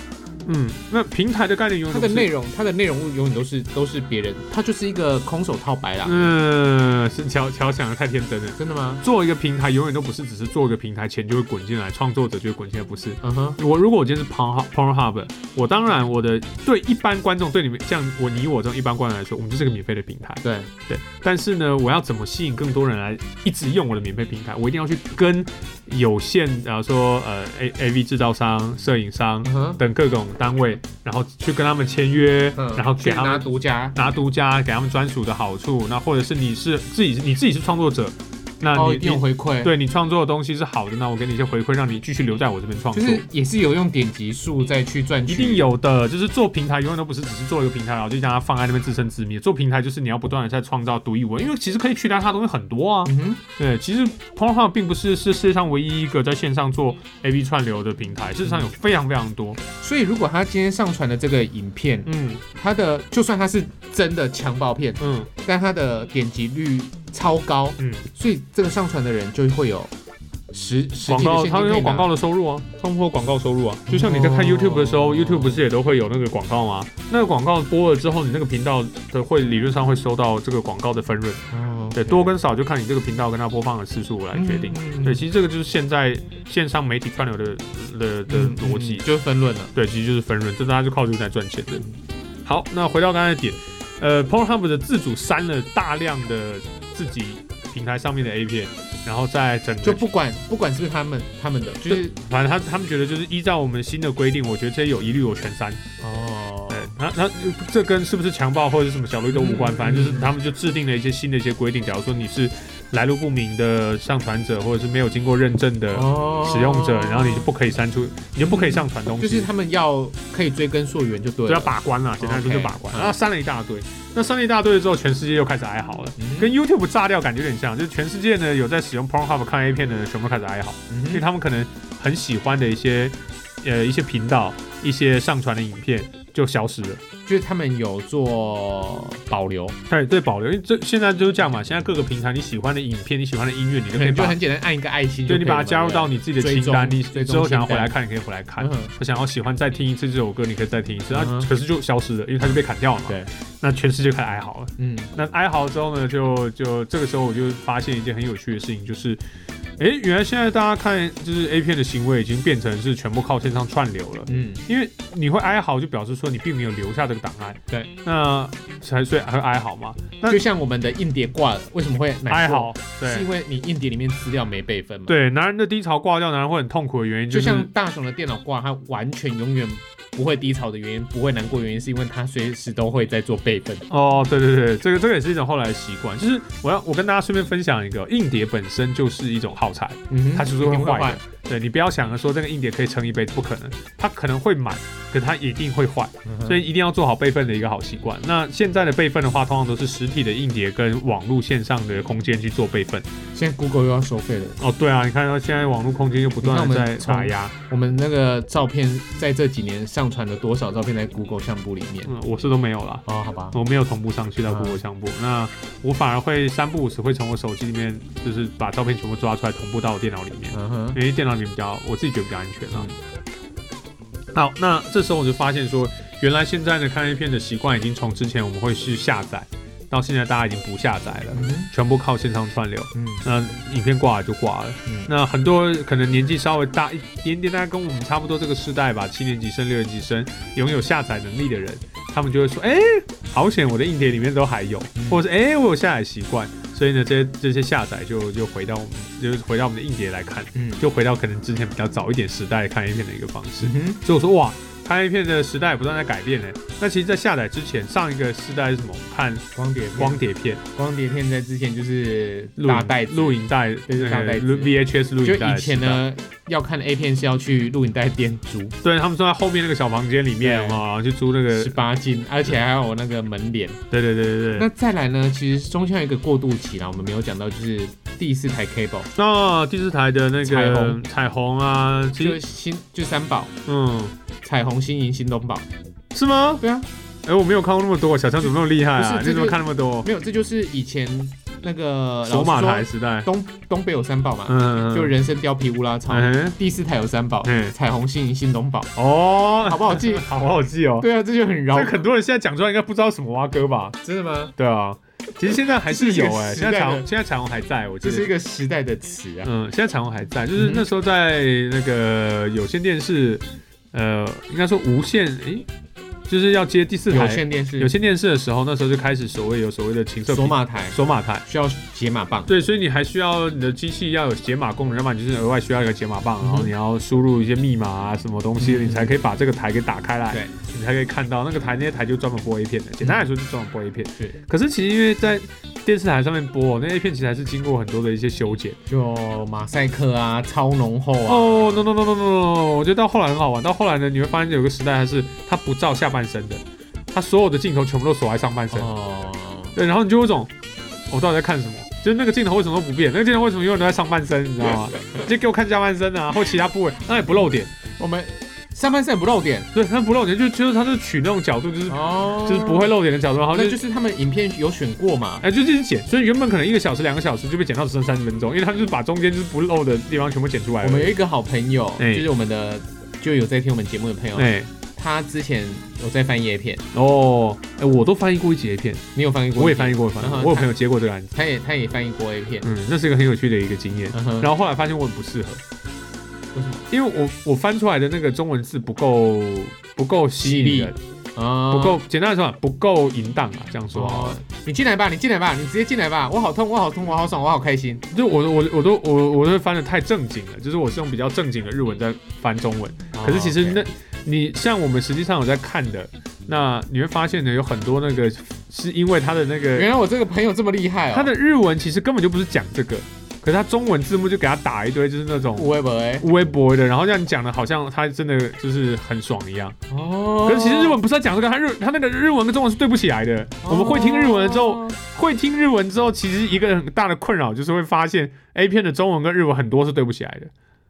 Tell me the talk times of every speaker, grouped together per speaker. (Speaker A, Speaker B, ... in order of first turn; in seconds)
Speaker A: 0.5-2.3, 6.0-43.2, 45.3-59.6, 62.0-62.4, 65.0-65.3, 71.1-89.0, 89.8-91.8, 92.4-100.0, 101.9-105.8, 106.7-119.5, 121.5-137.0, 139.9-144.4, 145.3-159.2, 159.8-170.4, 172.3-173.3, 175.1-177.7, 183.9-203.1, 204.6-207.5, 212.1-222.9, 224.3-260.6, 262.6-266.0, 268.8-271.8, 273.9-274.7, 279.1-282.4, 283.6-284.1, 286.1-286.6, 287.2-290.1, 292.2-293.3, 294.5-295.1, 296.1-296.6, 297.4-297.8, 298.9-301.1, 301.7-304.0, 304.6-308.3, 309.4-315.7, 316.3-321.4, 322.5-338.8, 341.3-348.9, 349.8-350.5, 351.1-357.7, 359.7-363.8, 365.4-371.1, 372.0-372.3, 374.3-374.7, 376.9-381.3, 382.6-385.6, 386.9-391.0, 391.7-394.4, 398.1-409.9, 411.1-419.8, 420.4-430.5
Speaker B: 1.9-6.3, 8.6-9.0, 13.2-13.6, 20.4-20.7, 29.4-29.8, 32.5-34.0, 38.7-39.7, 42.9-45.6, 53.0-53.4, 58.4-58.7, 59.8-69.9, 70.5-72.1, 73.9-75.6, 81.5-82.3, 84.3-85.2, 88.3-89.7, 99.8-102.2, 106.0-106.9, 109.3-110.3, 115.9-117.5, 118.4-123.2, 126.2-126.5, 130.9-131.2, 137.2-139.8, 143.9-147.9, 148.6-148.9, 151.1-151.5, 152.4-153.3, 154.8-155.1, 164.3-164.6, 170.3-175.1, 177.3-183.9, 190.1-191.2, 196.2-196.6, 203.3-204.6, 206.4-212.1, 213.1-213.6, 214.4-214.8, 220.5-221.0, 231.3-231.7, 232.9-233.2, 244.9-245.2, 250.5-250.8, 253.6-254.0, 259.5-260.2, 260.8-268.8, 270.4-270.8, 271.5-273.8, 274.5-279.1, 280.4-281.0, 282.2-283.5, 284.4-285.6, 286.6-286.9, 288.4-298.9, 299.6-300.3, 301.0-302.0, 304.0-304.5, 305.9-307.1, 308.0-309.5, 310.5-310.9, 317.1-317.9, 320.3-322.5, 326.4-326.7, 328.6-329.2, 333.0-333.3, 338.9-341.9, 348.7-349.8, 358.0-359.7, 361.9-362.9, 363.5-365.5, 370.8-376.8, 379.1-380.7, 381.3-382.7, 384.1-384.5, 386.5-386.9, 390.4-392.0, 393.9-398.0, 403.1-403.8, 409.8-411.3, 415.6-416.3, 419.9-421.0, 423.6-425.0